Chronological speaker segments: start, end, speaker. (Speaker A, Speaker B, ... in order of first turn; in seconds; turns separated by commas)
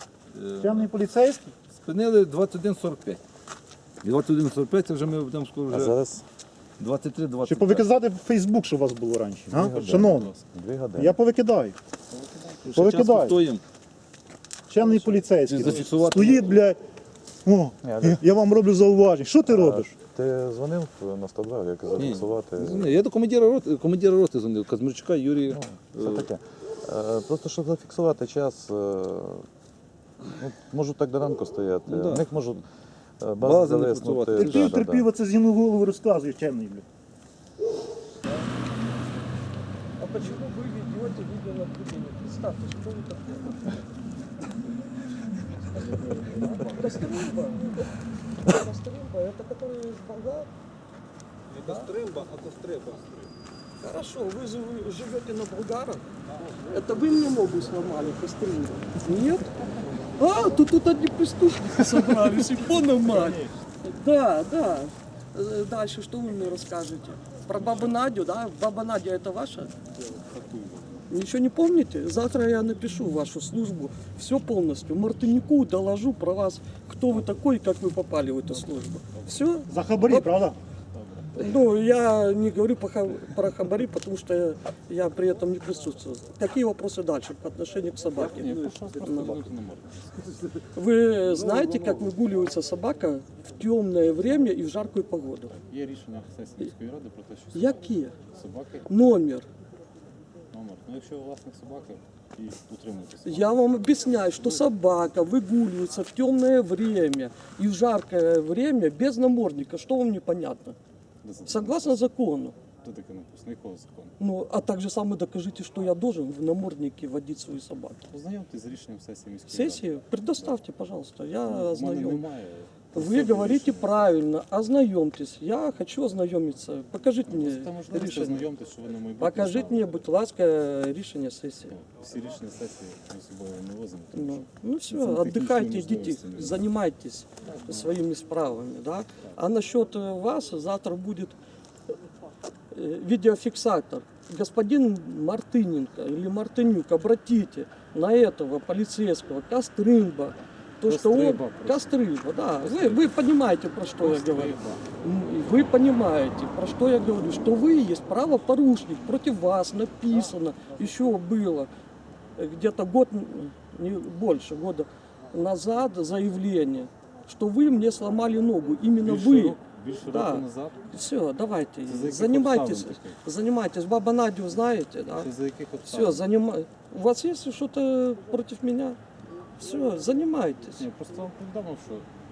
Speaker A: 0.3-0.9, Speaker B: 0.6-1.5, Speaker A: 1.8-3.2, Speaker A: 4.0-6.0, Speaker C: 5.7-6.2, Speaker A: 6.8-7.8, Speaker B: 7.5-10.3, Speaker C: 9.5-11.2, Speaker D: 9.9-10.4, Speaker B: 11.0-11.8, Speaker D: 12.1-12.6, Speaker A: 12.6-13.6, Speaker B: 12.7-13.4, Speaker B: 14.7-16.8, Speaker A: 15.5-16.6, Speaker B: 17.4-19.9, Speaker C: 17.8-18.2, Speaker C: 19.5-23.0, Speaker A: 22.0-26.3, Speaker C: 25.5-29.5, Speaker C: 30.2-32.6, Speaker A: 31.9-32.3, Speaker C: 33.2-35.1, Speaker A: 33.4-34.8, Speaker B: 34.4-36.9, Speaker E: 40.0-43.8, Speaker E: 45.7-50.5, Speaker E: 51.6-52.0, Speaker A: 52.0-52.8, Speaker E: 53.8-56.1, Speaker E: 56.7-59.5, Speaker E: 60.2-69.7, Speaker D: 61.8-63.6, Speaker D: 70.1-71.1, Speaker E: 71.1-80.4, Speaker D: 78.5-80.0, Speaker B: 79.7-80.6, Speaker D: 80.9-81.5, Speaker E: 81.4-89.4, Speaker D: 88.1-90.4, Speaker E: 90.7-95.5, Speaker A: 91.3-92.1, Speaker D: 95.5-98.9, Speaker E: 97.5-98.2, Speaker E: 98.9-99.5, Speaker D: 100.5-103.6, Speaker E: 103.2-110.8, Speaker D: 111.2-112.1, Speaker E: 111.5-112.5, Speaker D: 112.8-114.2, Speaker E: 114.2-118.0, Speaker D: 118.1-120.6, Speaker E: 119.5-122.2, Speaker D: 121.5-124.1, Speaker E: 122.9-128.5, Speaker D: 127.3-130.1, Speaker E: 129.2-131.8, Speaker D: 131.7-136.7, Speaker E: 134.1-141.4, Speaker D: 137.4-138.0, Speaker E: 142.7-161.7, Speaker D: 150.8-154.9, Speaker E: 162.4-175.3, Speaker D: 169.0-170.9, Speaker D: 171.8-173.2, Speaker D: 175.1-176.3, Speaker E: 175.8-179.0, Speaker E: 179.6-180.8, Speaker D: 180.8-182.1